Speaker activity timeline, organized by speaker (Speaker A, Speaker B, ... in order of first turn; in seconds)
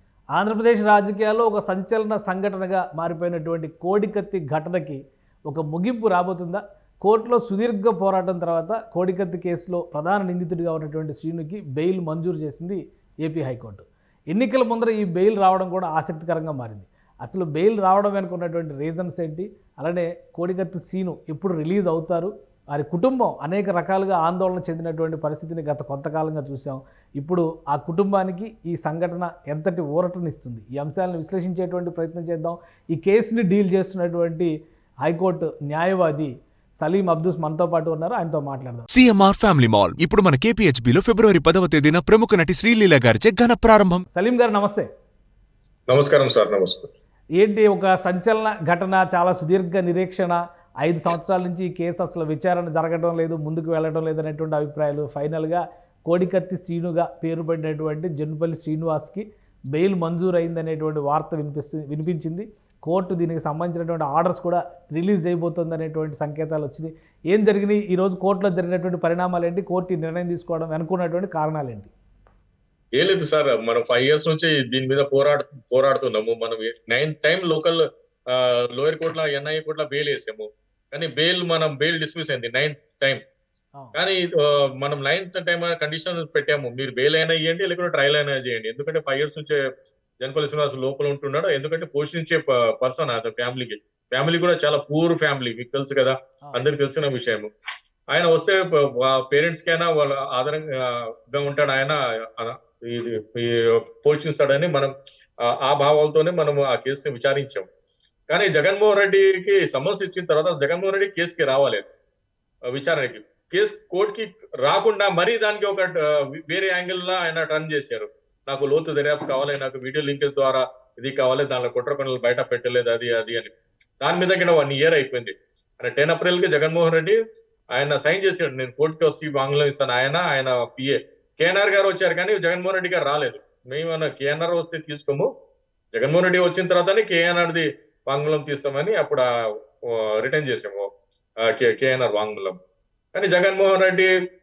Speaker A: 0.3-34.5, 35.0-38.9, 44.1-44.9, 47.4-71.9
Speaker B: 38.9-44.0
Speaker C: 45.9-46.9, 73.0-83.2, 83.9-89.6, 90.2-97.5, 98.1-104.9, 105.4-107.7, 108.3-111.9, 112.7-127.2, 127.7-135.3, 135.9-139.2, 139.8-140.9, 141.4-142.6, 143.1-144.1